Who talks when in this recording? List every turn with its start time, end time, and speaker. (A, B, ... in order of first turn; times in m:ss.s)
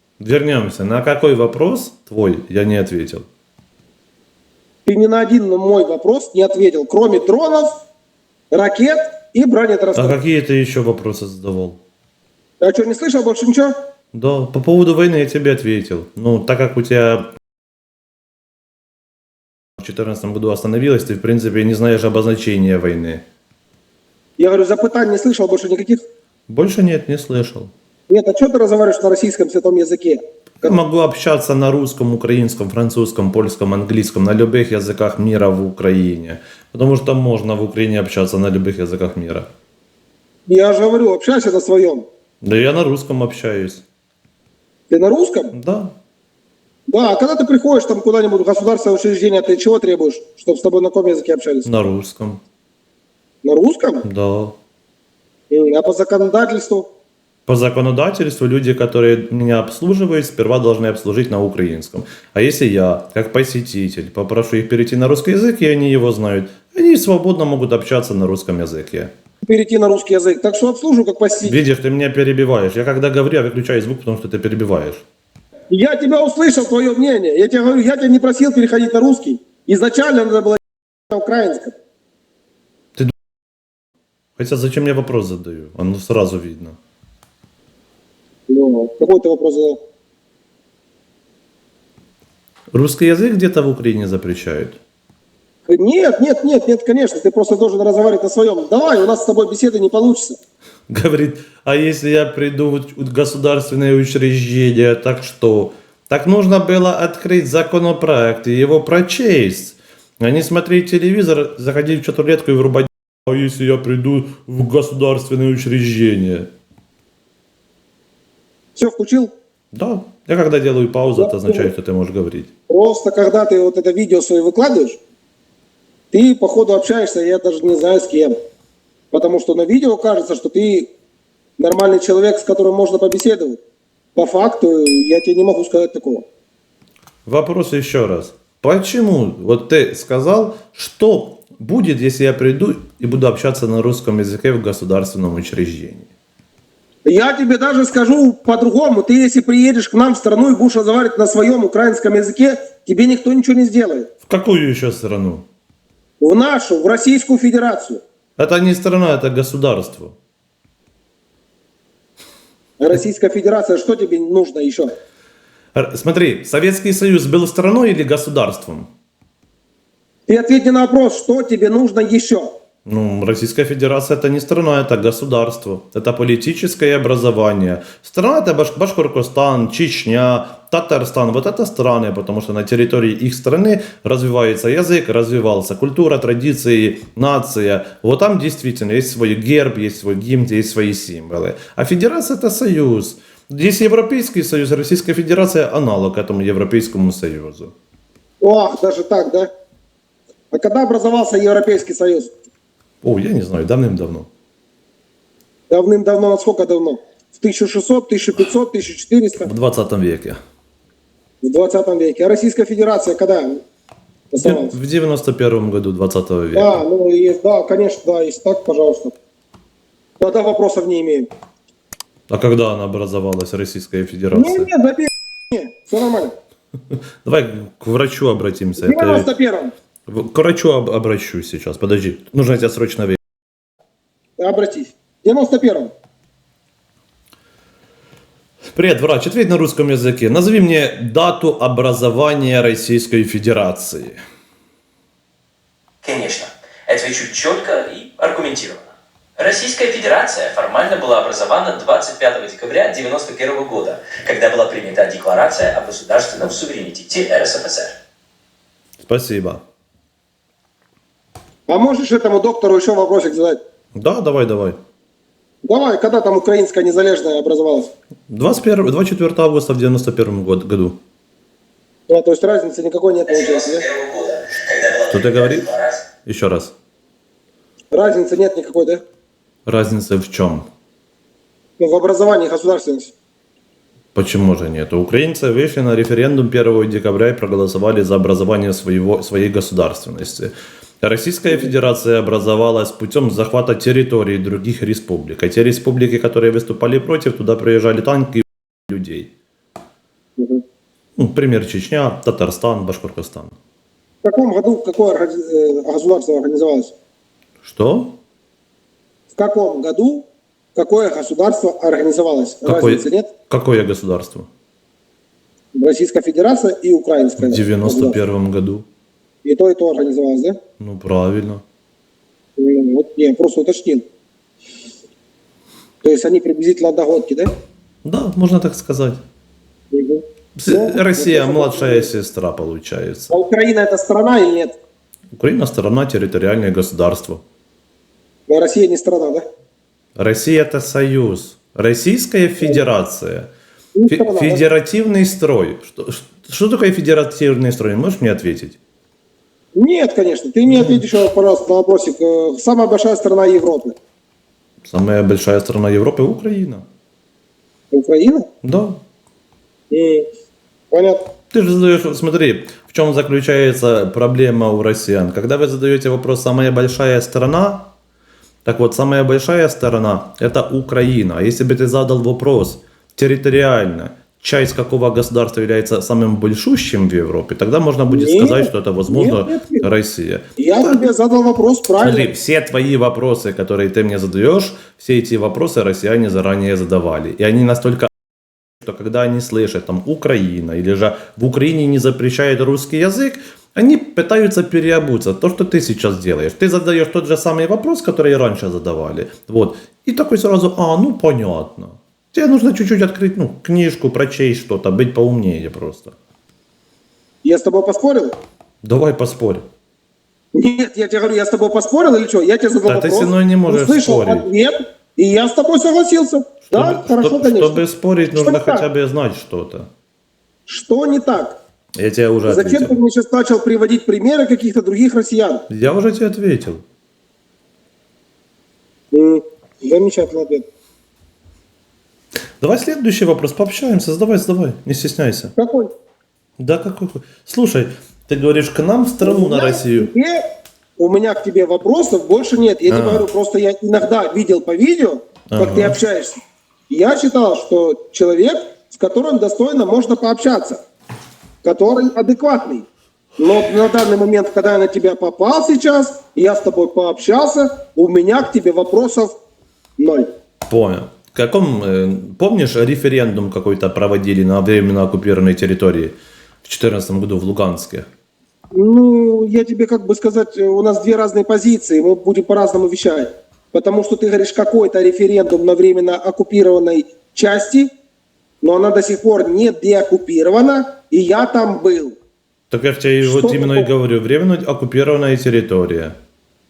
0:00.2-0:03.3 A
0:04.9-0:07.8 B
0:08.5-0:10.2 B
0:09.9-0:11.8 A
0:12.6-0:13.8 B
0:14.1-0:17.3 A
0:19.8-0:23.2 A
0:24.4-0:26.0 B
0:26.5-0:27.7 A
0:28.1-0:30.8 B
0:30.6-0:39.5 A
0:40.5-0:42.1 B
0:42.4-0:43.8 A
0:44.9-0:45.5 B
0:45.5-0:46.0 A
0:46.9-0:51.7 B
0:51.6-0:52.4 A
0:53.4-0:54.1 B
0:54.0-0:54.6 A
0:55.5-0:56.9 B
0:57.5-1:09.1 A
1:09.4-1:11.6 B
1:11.4-1:15.0 A
1:15.7-1:21.8 B
1:24.4-1:26.8 A
1:28.5-1:29.8 B
1:32.7-1:34.8 A
1:35.7-1:40.4 B
1:40.9-1:56.5 A
1:58.8-1:59.3 B
1:59.7-2:02.5 A
2:01.2-2:01.7 B
2:02.7-2:05.0 B
2:06.1-2:08.4 B
2:09.1-2:10.9 B
2:11.6-2:13.6 B
2:14.2-2:16.3 B
2:17.3-2:26.1 A
2:27.0-2:34.1 B
2:34.3-2:35.4 A
2:36.2-2:38.0 B
2:38.4-2:40.2 A
2:42.8-2:44.9 B
2:45.7-2:48.9 A
2:50.3-2:52.5 B
2:52.9-3:17.7 A
3:18.4-3:19.5 B
3:20.5-3:22.3 B
3:23.0-3:24.3 A
3:25.7-3:29.5 B
3:29.4-3:30.4 A
3:31.4-3:33.6 B
3:34.3-3:34.8 B
3:34.4-3:36.8 A
3:36.5-3:39.2 B
3:40.2-3:41.3 B
3:42.3-3:44.7 A
3:44.3-3:46.3 B
3:46.9-3:49.3 A
3:48.8-3:49.7 B
3:50.1-3:53.2 A
3:54.4-3:55.9 B
3:58.7-4:04.2 A
4:06.0-4:17.9 C
4:19.0-4:19.6 A
4:21.7-4:23.6 B
4:24.0-4:24.8 A
4:25.6-4:27.9 B
4:28.3-4:31.0 A
4:32.1-4:33.8 B
4:33.3-4:36.0 C
4:35.1-4:36.7 A
4:37.9-4:39.0 B
4:39.7-4:40.7 A
4:41.8-4:43.1 B
4:44.2-4:59.3 A
5:00.4-5:00.6 B
5:01.2-5:03.6 A
5:04.2-5:06.9 B
5:07.6-5:08.2 A
5:09.3-5:13.3 B
5:12.6-5:14.5 A
5:15.8-5:18.2 B
5:17.4-5:18.8 A
5:19.4-5:20.6 B
5:20.8-5:21.6 A
5:22.6-5:24.1 B
5:26.0-5:27.5 B
5:28.0-5:29.2 A
5:29.9-5:32.1 B
5:30.6-5:33.3 A
5:33.3-5:34.8 B
5:35.4-5:37.4 A
5:38.5-5:39.4 B
5:40.2-5:43.5 A
5:44.0-5:44.6 B
5:44.1-5:48.8 A
5:49.8-5:54.0 B
5:50.7-5:51.0 A
5:54.9-5:56.8 A
5:57.9-5:58.5 B
5:58.6-5:59.0 A
5:59.9-6:00.3 B
6:00.9-6:01.2 B
6:01.5-6:07.9 A
6:08.6-6:21.1 A
6:18.1-6:19.9 B
6:20.6-6:22.3 B
6:22.0-6:28.1 A
6:28.8-6:46.1 A
6:47.4-6:48.4 B
6:48.8-6:49.7 A
6:50.5-6:57.8 B
6:52.9-6:54.5 A
6:56.6-6:59.9 A
6:58.3-6:58.9 B
7:00.7-7:01.6 B
7:02.0-7:03.0 A
7:02.5-7:05.6 B
7:05.7-7:06.8 A
7:09.1-7:10.7 B
7:12.6-7:15.5 A
7:15.6-7:15.9 B
7:16.6-7:20.1 A
7:19.2-7:20.4 B
7:21.0-7:30.8 B
7:22.9-7:23.3 A
7:25.5-7:26.0 A
7:31.6-7:32.9 B
7:33.4-7:39.4 B
7:40.0-7:40.3 B
7:40.7-7:48.1 A
7:48.7-7:57.9 B
7:58.6-8:02.2 B
8:02.7-8:06.2 A
8:03.2-8:03.9 B